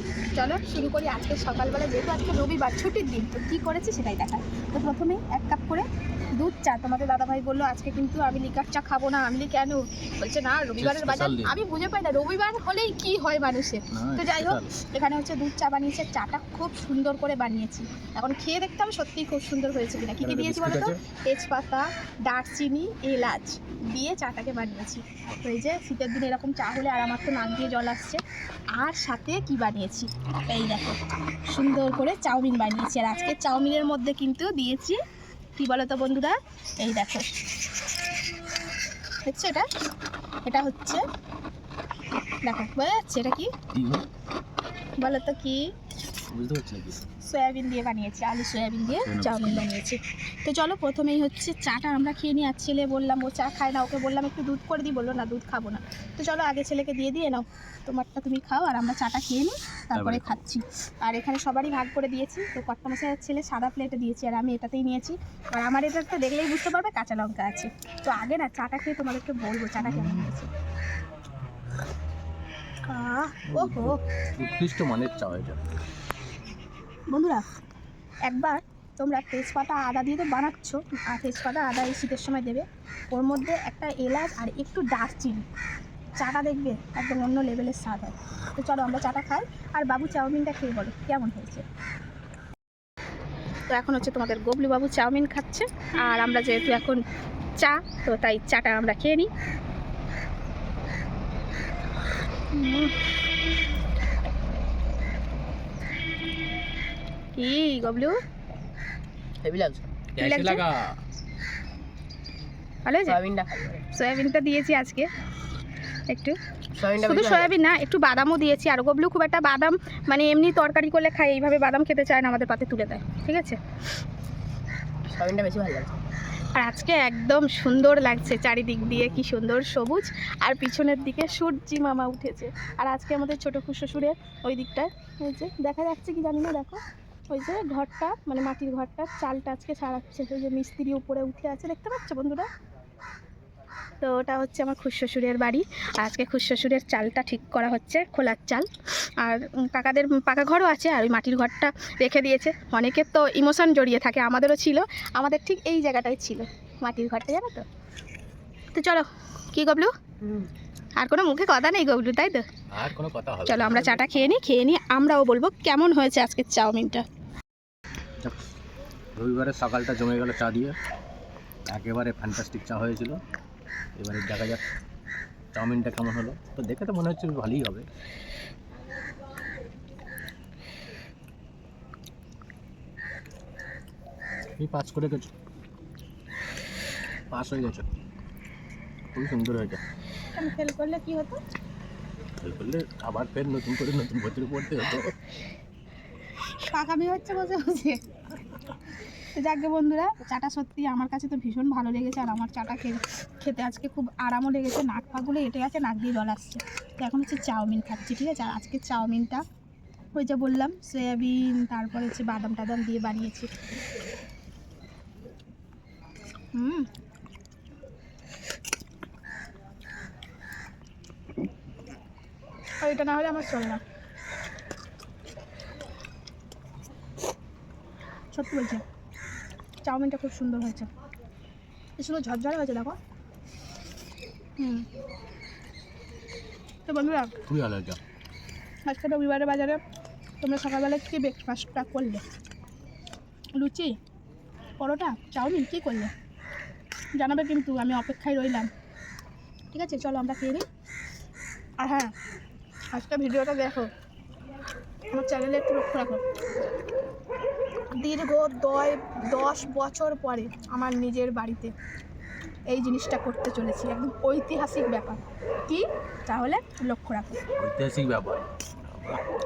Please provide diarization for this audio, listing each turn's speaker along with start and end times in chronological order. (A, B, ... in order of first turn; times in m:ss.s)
0:00.3-0:05.9 A
0:06.4-0:28.2 A
0:10.8-0:11.5 B
0:13.9-0:14.7 B
0:20.2-0:21.0 B
0:28.8-0:35.0 A
0:35.6-0:37.3 A
0:39.3-0:39.7 A
0:40.4-0:41.0 A
0:42.4-0:43.5 A
0:43.7-0:44.0 B
0:45.0-0:45.6 A
0:46.3-0:47.1 B
0:47.2-1:10.5 A
0:48.9-0:49.6 B
1:00.0-1:00.4 B
1:09.8-1:10.3 B
1:12.9-1:14.0 A
1:13.5-1:15.6 B
1:17.1-1:17.4 A
1:18.3-1:25.4 A
1:26.2-1:31.6 A
1:33.7-1:37.0 A
1:37.6-1:39.3 A
1:42.5-1:42.9 A
1:47.4-1:48.2 A
1:49.4-1:50.0 C
1:50.2-1:50.6 A
1:50.2-1:50.9 B
1:52.8-1:53.2 A
1:53.1-1:53.8 C
1:53.9-1:55.1 A
1:56.1-1:56.4 A
1:56.8-1:57.5 C
1:57.0-2:03.6 A
2:05.1-2:06.0 C
2:06.6-2:16.8 A
2:17.3-2:22.5 A
2:24.0-2:28.7 A
2:29.2-2:37.6 A
2:38.7-2:39.9 A
2:41.0-2:42.4 A
2:42.7-2:44.0 B
2:43.5-2:47.0 A
2:49.2-2:50.8 B
2:51.7-2:53.2 B
2:54.0-2:54.6 B
2:55.5-2:57.8 B
3:04.6-3:05.3 B
3:07.3-3:07.9 B
3:09.1-3:09.8 B
3:10.4-3:11.4 A
3:12.4-3:15.1 B
3:16.6-3:18.0 A
3:19.4-3:29.4 A
3:30.2-3:33.5 A
3:36.6-3:36.9 A
3:42.8-3:43.8 A
3:48.3-3:48.8 A
3:49.8-3:50.9 A
3:52.0-3:53.0 A
3:54.6-3:54.9 A
3:56.9-3:57.4 A
3:57.5-3:58.0 B
3:58.9-3:59.8 A
4:00.4-4:02.2 A
4:03.6-4:04.0 A
4:04.8-4:06.1 A
4:07.2-4:08.7 A
4:09.7-4:10.6 A
4:11.8-4:12.1 A
4:12.9-4:13.9 A
4:15.1-4:16.2 A
4:18.0-4:21.7 A
4:22.7-4:27.4 A
4:27.6-4:29.2 B